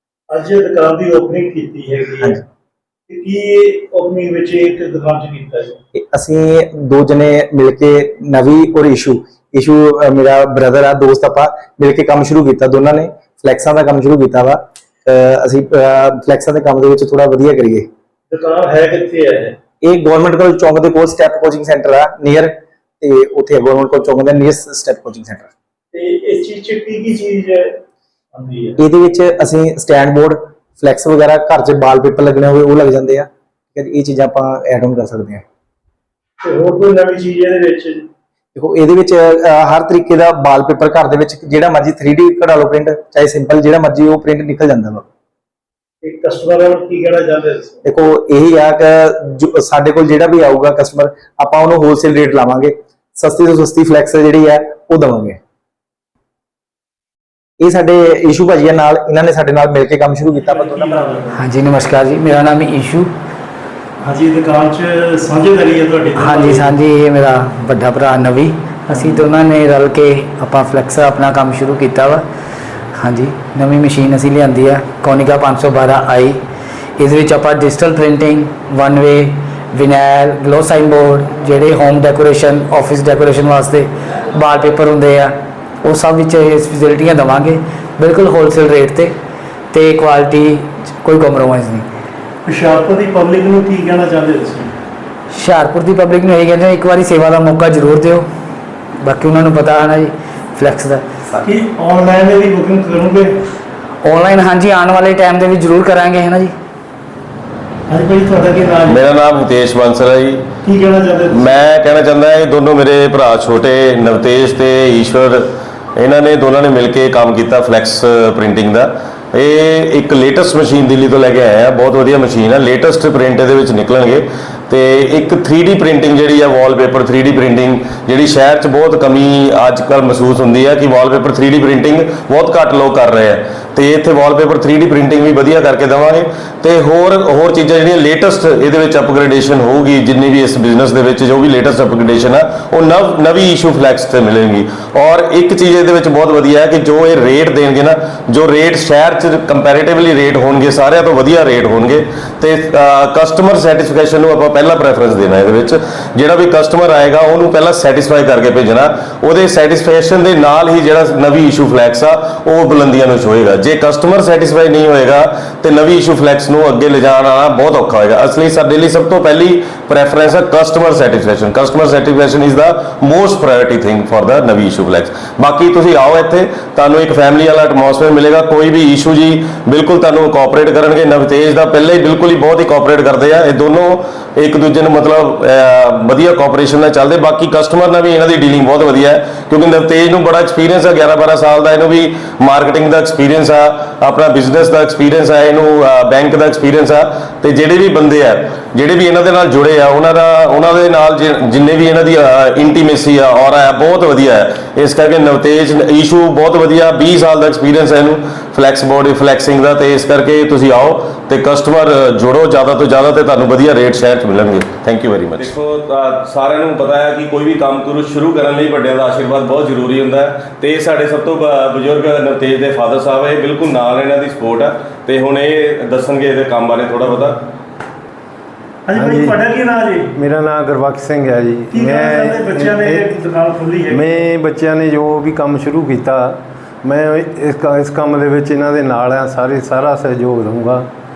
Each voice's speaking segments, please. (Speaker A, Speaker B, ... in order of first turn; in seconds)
Speaker A: 0.3-2.4, 3.1-5.8, 18.3-19.6, 25.9-27.8, 28.3-28.8, 36.4-38.1, 46.0-47.8, 60.3-61.4, 64.0-66.7, 68.9-69.2, 92.4-94.7, 101.4-103.3, 107.9-109.0, 110.6-111.6, 228.9-230.1, 231.7-234.2
Speaker B: 5.9-17.9, 19.8-25.5, 28.8-35.4, 38.5-45.1, 47.8-55.4, 57.6-61.1
Speaker C: 61.3-63.1, 66.2-72.2, 73.0-76.4, 77.0-85.3, 85.8-89.1, 89.7-91.8, 95.3-98.2, 99.0-101.0, 104.0-106.5
Speaker D: 108.9-110.4, 111.3-227.4
Speaker E: 228.9-229.4, 230.2-233.1, 233.9-240.9